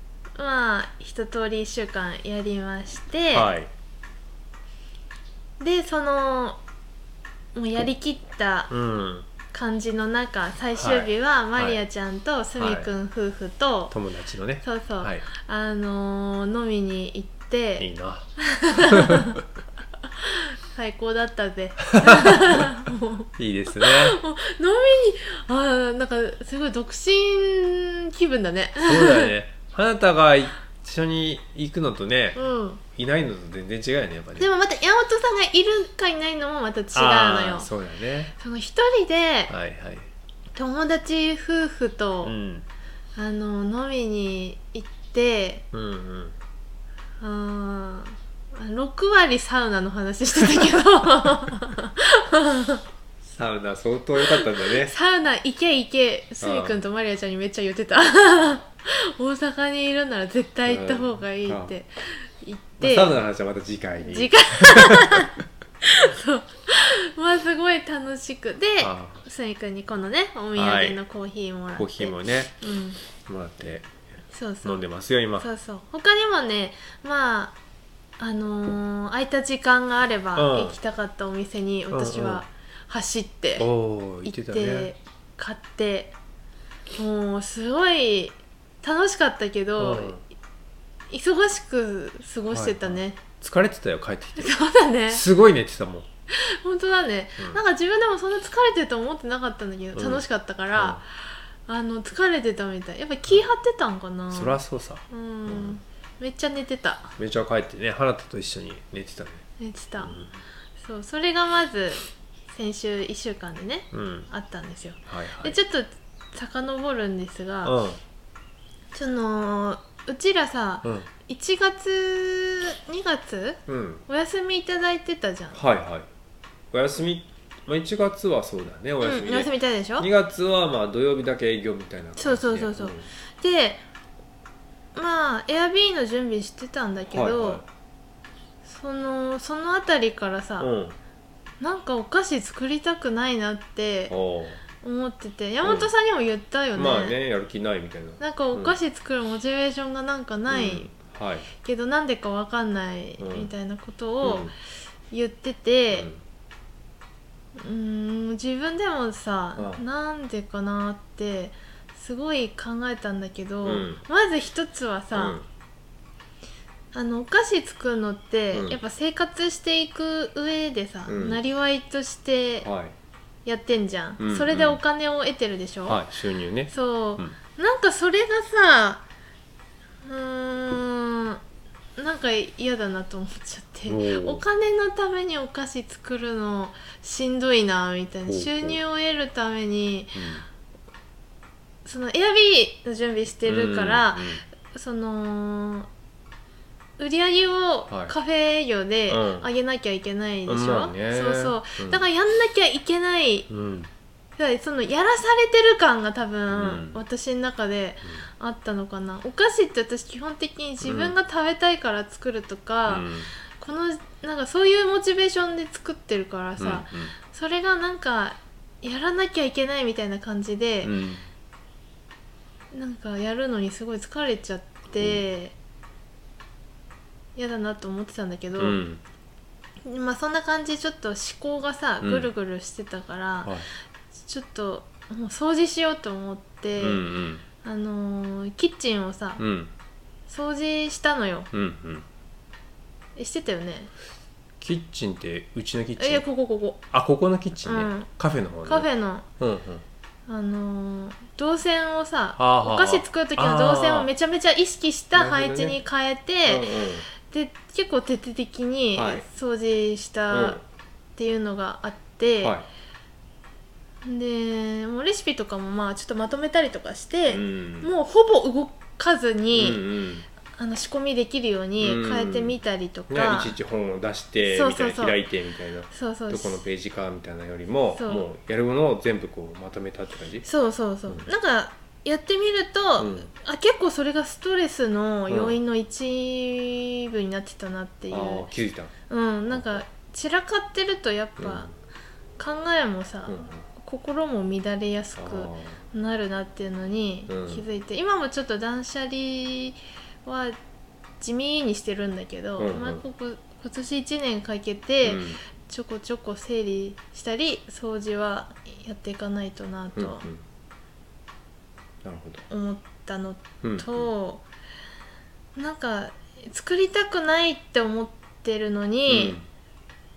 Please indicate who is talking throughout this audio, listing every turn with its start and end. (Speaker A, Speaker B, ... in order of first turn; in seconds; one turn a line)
Speaker A: 0.4-3.5
Speaker B: 3.3-3.7
Speaker A: 5.6-6.6
Speaker A: 7.5-8.7
Speaker B: 8.7-9.3
Speaker A: 9.5-13.9
Speaker B: 10.8-11.8
Speaker B: 12.6-12.9
Speaker B: 13.9-15.2
Speaker A: 14.6-19.4
Speaker B: 17.8-19.4
Speaker A: 20.1-29.3
Speaker B: 21.9-22.8
Speaker B: 23.4-24.2
Speaker B: 28.8-32.4
Speaker A: 32.4-32.8
Speaker B: 32.9-34.5
Speaker A: 34.4-37.7
Speaker B: 36.9-38.3
Speaker A: 38.4-39.5
Speaker B: 39.5-40.1
Speaker A: 40.5-42.4
Speaker B: 42.2-42.7
Speaker A: 43.2-45.7
Speaker B: 45.7-46.4
Speaker A: 47.2-52.8
Speaker B: 53.2-54.9
Speaker A: 54.2-63.2
Speaker B: 56.4-56.8
Speaker B: 60.7-61.7
Speaker B: 62.8-65.3
Speaker A: 64.0-73.0
Speaker B: 68.8-69.2
Speaker B: 70.6-71.0
Speaker B: 71.8-72.6
Speaker B: 73.2-73.9
Speaker A: 74.3-74.8
Speaker B: 74.6-75.5
Speaker A: 75.4-77.6
Speaker A: 78.2-83.7
Speaker B: 80.3-80.8
Speaker B: 81.9-82.4
Speaker B: 83.6-84.9
Speaker A: 84.2-86.2
Speaker A: 87.0-90.2
Speaker B: 89.8-90.2
Speaker A: 91.1-93.2
Speaker B: 92.5-94.5
Speaker A: 94.4-95.2
Speaker B: 95.1-96.1
Speaker A: 96.3-101.0
Speaker B: 100.0-101.0
Speaker A: 101.7-104.6
Speaker B: 104.3-105.8
Speaker A: 105.1-107.2
Speaker B: 107.2-109.5
Speaker A: 109.6-110.2
Speaker B: 110.0-110.3
Speaker A: 110.8-117.8
Speaker B: 113.9-114.3
Speaker B: 115.1-115.6
Speaker B: 117.6-118.0
Speaker A: 118.9-125.6
Speaker B: 123.7-124.0
Speaker B: 125.5-126.1
Speaker B: 126.7-133.1
Speaker A: 129.0-130.1
Speaker A: 132.2-133.8
Speaker A: 134.9-137.6
Speaker B: 137.1-137.7
Speaker A: 138.7-140.7
Speaker B: 140.6-141.0
Speaker A: 141.6-144.2
Speaker B: 144.1-144.6
Speaker A: 144.8-147.2
Speaker B: 145.6-145.9
Speaker B: 146.8-148.8
Speaker A: 148.2-150.9
Speaker B: 150.5-151.5
Speaker A: 151.6-154.5
Speaker B: 153.2-153.5
Speaker B: 154.2-154.5
Speaker A: 155.1-156.1
Speaker B: 155.9-156.2
Speaker A: 157.6-165.4
Speaker B: 159.6-159.8
Speaker B: 163.7-164.0
Speaker B: 165.1-165.4
Speaker A: 166.9-172.7
Speaker B: 168.5-168.8
Speaker B: 171.1-171.4
Speaker B: 172.7-172.9
Speaker A: 173.4-176.0
Speaker B: 174.2-174.8
Speaker B: 175.9-177.4
Speaker A: 176.7-179.0
Speaker A: 180.1-181.4
Speaker A: 182.0-190.2
Speaker B: 183.9-184.4
Speaker B: 188.3-188.8
Speaker B: 190.2-190.4
Speaker A: 191.8-195.9
Speaker B: 193.4-194.4
Speaker A: 197.0-203.5
Speaker B: 197.9-198.1
Speaker B: 199.1-199.5
Speaker B: 200.5-202.0
Speaker B: 203.5-203.9
Speaker A: 204.4-220.9
Speaker B: 206.5-207.0
Speaker B: 210.8-211.2
Speaker B: 212.9-213.3
Speaker B: 216.6-217.2
Speaker B: 220.8-221.3
Speaker A: 222.7-225.6
Speaker A: 227.4-228.8
Speaker B: 228.6-229.0
Speaker A: 229.8-233.6
Speaker B: 232.0-232.3
Speaker A: 234.2-237.0
Speaker B: 236.8-237.4
Speaker A: 237.6-239.4
Speaker B: 239.4-239.7
Speaker A: 240.3-241.5
Speaker B: 241.5-242.1
Speaker A: 243.2-243.9
Speaker B: 244.6-246.2
Speaker A: 246.0-246.8
Speaker B: 246.9-248.9
Speaker A: 247.7-248.1
Speaker A: 248.7-249.3
Speaker B: 249.4-249.8
Speaker A: 250.3-260.6
Speaker B: 252.4-254.1
Speaker B: 255.2-255.8
Speaker B: 256.5-257.1
Speaker B: 259.0-259.2
Speaker B: 260.3-260.6
Speaker A: 261.2-262.6
Speaker A: 264.0-269.8
Speaker B: 267.3-267.9
Speaker B: 269.5-270.3
Speaker A: 270.5-273.6
Speaker B: 271.8-272.6
Speaker B: 273.1-280.5
Speaker A: 274.4-275.2
Speaker A: 275.9-276.6
Speaker A: 278.0-278.2
Speaker A: 280.4-288.5
Speaker B: 283.0-283.3
Speaker B: 285.3-285.6
Speaker B: 288.1-288.9
Speaker A: 289.1-291.7
Speaker B: 289.5-289.8
Speaker B: 291.4-291.7
Speaker A: 292.4-300.6
Speaker B: 293.3-293.7
Speaker B: 295.2-295.8
Speaker B: 297.3-297.6
Speaker A: 301.2-310.3
Speaker B: 302.6-303.0
Speaker B: 305.0-305.4
Speaker B: 309.9-310.4
Speaker B: 312.0-312.4
Speaker A: 312.5-314.4
Speaker B: 313.6-314.1
Speaker A: 315.6-319.4
Speaker B: 319.1-319.4